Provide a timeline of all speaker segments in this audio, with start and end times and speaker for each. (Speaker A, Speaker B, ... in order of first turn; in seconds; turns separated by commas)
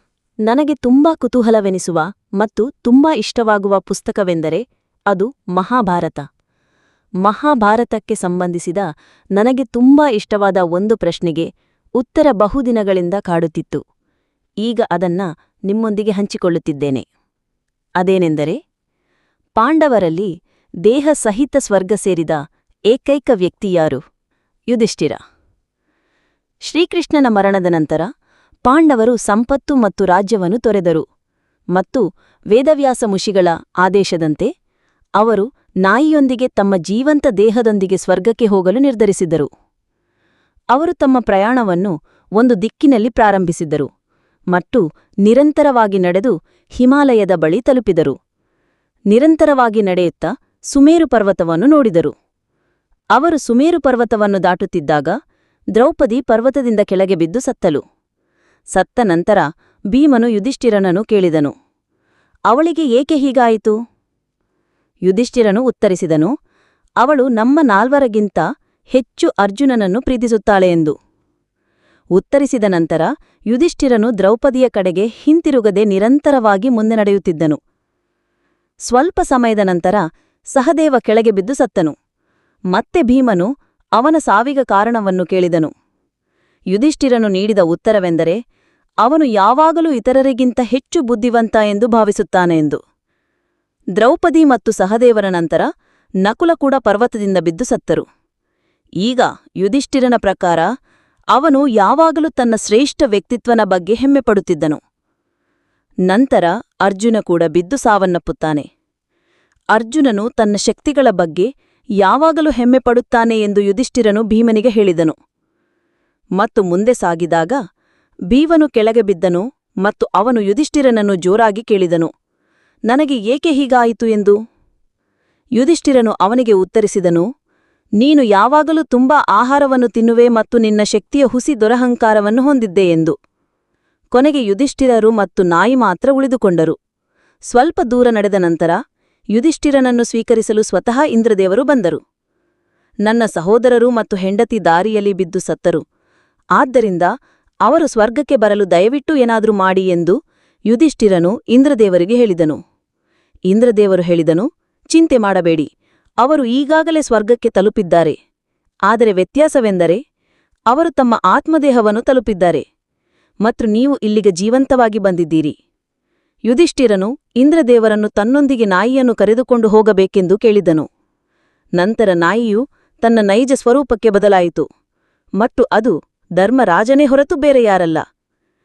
Speaker A: 0.5-6.3, Speaker A: 7.2-13.8, Speaker A: 14.6-17.1, Speaker A: 18.0-18.6, Speaker A: 19.6-20.3, Speaker A: 20.9-24.0, Speaker A: 24.7-25.2, Speaker A: 26.7-28.1, Speaker A: 28.6-31.0, Speaker A: 31.8-34.5, Speaker A: 35.2-39.5, Speaker A: 40.7-43.9, Speaker A: 44.5-48.1, Speaker A: 49.1-52.1, Speaker A: 53.1-55.1, Speaker A: 55.8-57.8, Speaker A: 58.7-61.5, Speaker A: 62.5-63.8, Speaker A: 65.0-66.3, Speaker A: 67.0-70.9, Speaker A: 72.2-77.6, Speaker A: 78.9-82.0, Speaker A: 82.7-85.7, Speaker A: 86.7-88.4, Speaker A: 89.0-92.8, Speaker A: 94.0-95.7, Speaker A: 96.2-98.0, Speaker A: 99.0-100.6, Speaker A: 101.3-104.8, Speaker A: 106.1-108.7, Speaker A: 109.7-111.5, Speaker A: 112.0-115.1, Speaker A: 116.4-117.6, Speaker A: 118.3-122.1, Speaker A: 122.9-124.3, Speaker A: 125.6-127.3, Speaker A: 128.0-133.1, Speaker A: 134.1-136.8, Speaker A: 137.5-138.8, Speaker A: 139.3-142.0, Speaker A: 143.1-145.8, Speaker A: 146.6-147.1, Speaker A: 147.7-150.2, Speaker A: 150.7-152.6, Speaker A: 153.5-155.7, Speaker A: 156.2-158.2, Speaker A: 158.9-160.0, Speaker A: 160.7-162.6, Speaker A: 163.4-165.6, Speaker A: 166.5-170.9, Speaker A: 171.8-174.7, Speaker A: 175.4-178.0